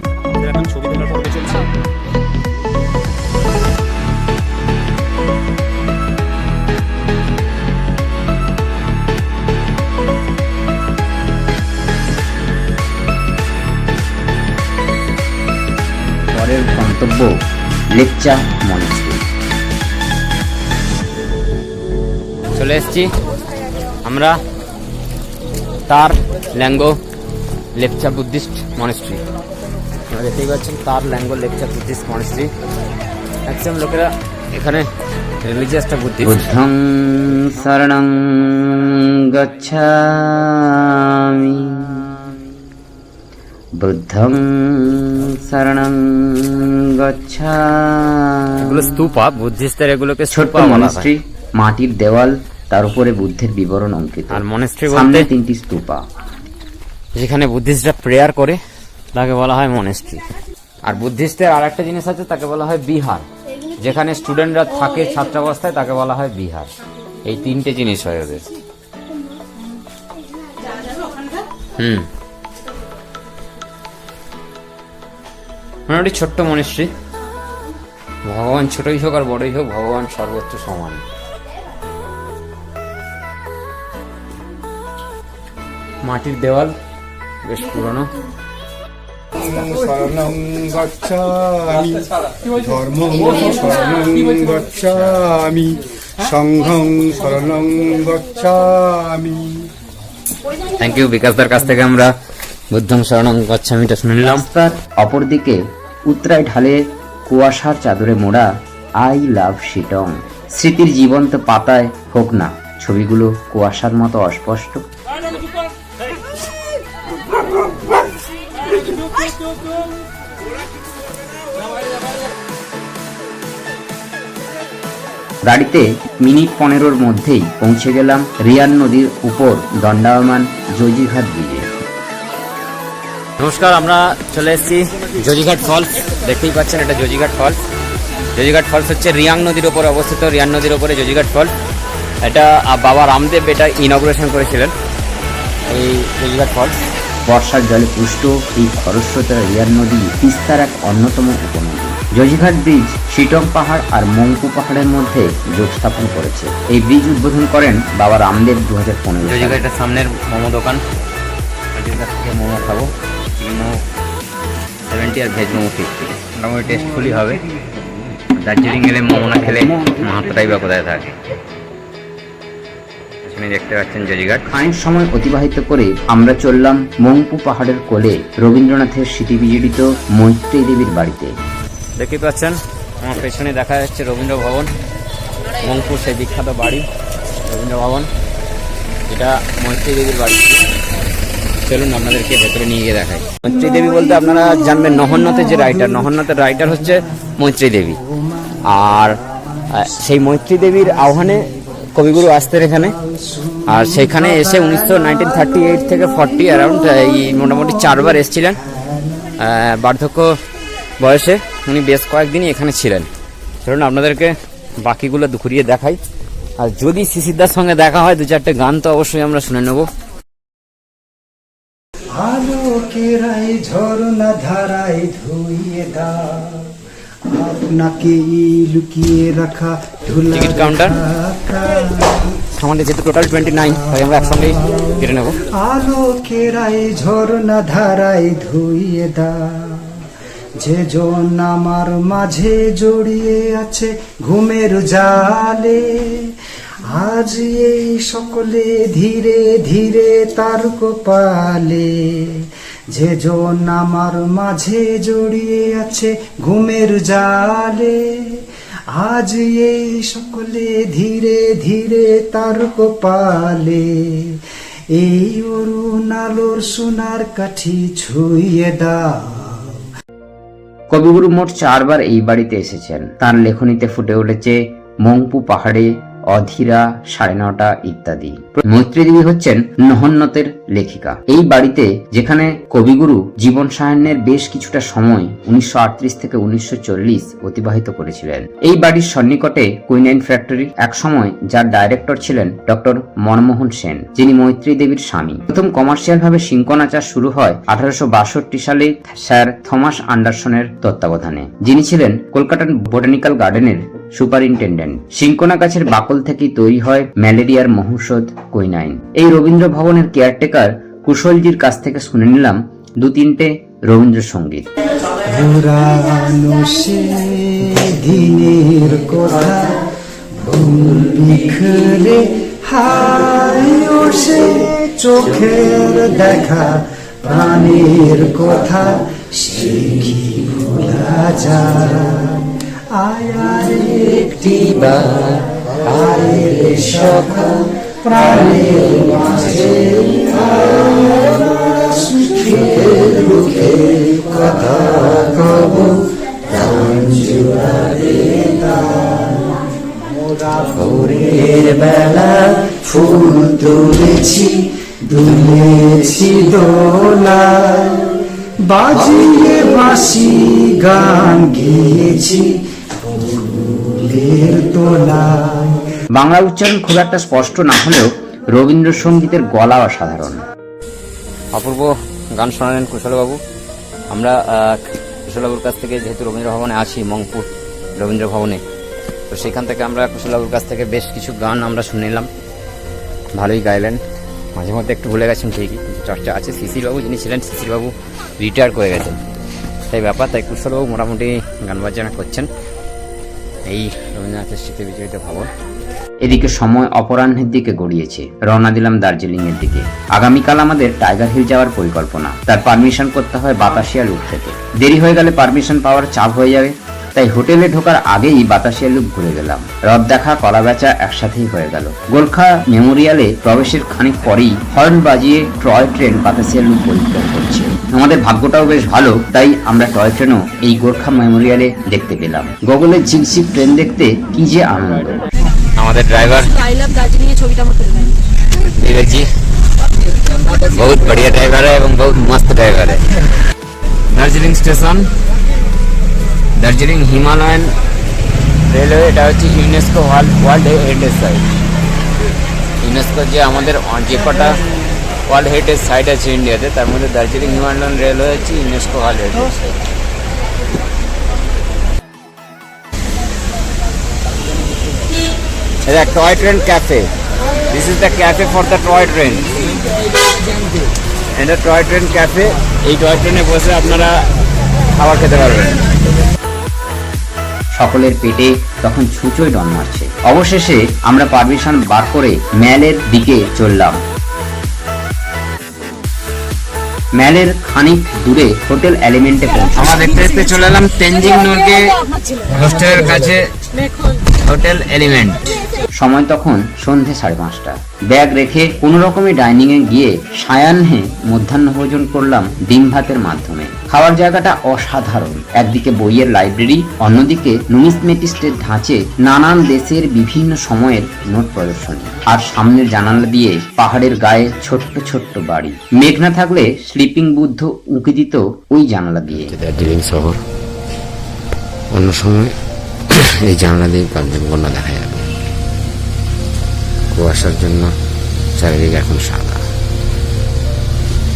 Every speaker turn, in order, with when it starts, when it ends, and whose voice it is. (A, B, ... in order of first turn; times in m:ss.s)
0:00.5-0:01.6 A
0:16.3-0:17.3 B
0:18.0-0:19.2 B
0:22.6-0:23.1 C
0:24.0-0:24.4 C
0:25.9-0:27.0 C
0:27.8-0:29.2 C
0:30.1-0:32.5 C
0:33.5-0:34.9 C
0:35.4-0:36.5 C
0:36.2-0:40.6 B
0:43.8-0:48.8 B
0:48.6-0:51.1 C
0:50.3-0:56.0 B
0:54.3-0:55.3 C
0:57.2-0:58.6 C
0:59.1-1:00.2 C
1:00.9-1:03.3 C
1:03.8-1:06.7 C
1:07.3-1:08.4 C
1:11.8-1:12.1 C
1:15.9-1:16.9 C
1:18.3-1:21.0 C
1:26.0-1:26.8 C
1:27.5-1:28.1 C
1:29.4-1:39.7 D
1:40.8-1:42.1 C
1:42.7-1:44.5 C
1:44.2-1:48.5 B
1:49.0-1:54.8 B
2:05.4-2:11.7 B
2:13.4-2:17.6 C
2:18.4-2:21.5 C
2:22.2-2:24.7 C
2:25.7-2:26.7 C
2:27.3-2:39.6 B
2:39.2-2:40.8 C
2:41.8-2:43.8 C
2:44.9-2:47.4 C
2:48.0-2:51.1 C
2:53.2-2:54.4 C
2:54.5-3:01.4 B
3:02.0-3:04.7 C
3:05.6-3:06.8 C
3:07.5-3:08.1 C
3:09.1-3:10.6 C
3:11.7-3:18.0 C
3:15.0-3:16.1 E
3:18.7-3:19.1 C
3:19.7-3:22.9 C
3:22.9-3:29.4 E
3:23.7-3:28.6 C
3:29.4-3:30.3 C
3:31.0-3:33.1 C
3:33.6-3:36.0 C
3:36.6-3:39.9 C
3:42.2-3:46.7 E
3:47.3-3:52.4 E
3:50.3-3:51.0 C
3:52.6-3:55.4 C
3:53.5-4:00.0 E
4:00.6-4:06.3 E
4:06.9-4:18.4 E
4:19.0-4:24.4 E
4:24.9-4:29.8 E
4:30.9-5:14.7 B
5:15.2-5:19.8 E
5:20.4-6:05.8 E
6:06.2-6:10.4 B
6:11.6-6:13.4 C
6:14.1-6:14.8 C
6:15.3-6:17.5 C
6:18.0-6:18.6 C
6:19.3-6:22.3 C
6:23.4-6:24.0 C
6:24.6-6:29.2 C
6:29.9-6:32.5 C
6:33.7-6:35.5 C
6:36.2-7:05.2 B
7:05.8-7:06.5 C
7:06.2-7:08.2 F
7:08.6-7:09.3 C
7:10.3-7:13.0 C
7:14.1-7:15.1 C
7:16.6-7:17.7 C
7:18.7-7:21.5 C
7:22.8-7:24.6 C
7:25.3-7:29.7 C
7:35.9-7:37.1 C
7:37.7-7:39.5 C
7:41.4-7:44.2 C
7:44.9-7:45.8 C
7:47.8-7:54.0 B
7:57.2-7:59.8 B
7:59.8-8:02.0 C
8:02.5-8:03.5 C
8:04.4-8:05.5 C
8:06.0-8:29.6 B
8:29.5-8:29.8 C
8:29.6-8:30.4 A
8:32.0-8:32.5 A
8:33.4-8:35.2 A
8:34.1-8:35.0 C
8:37.2-8:37.9 A
8:37.2-8:37.9 C
8:38.6-8:39.4 C
8:38.6-8:39.6 A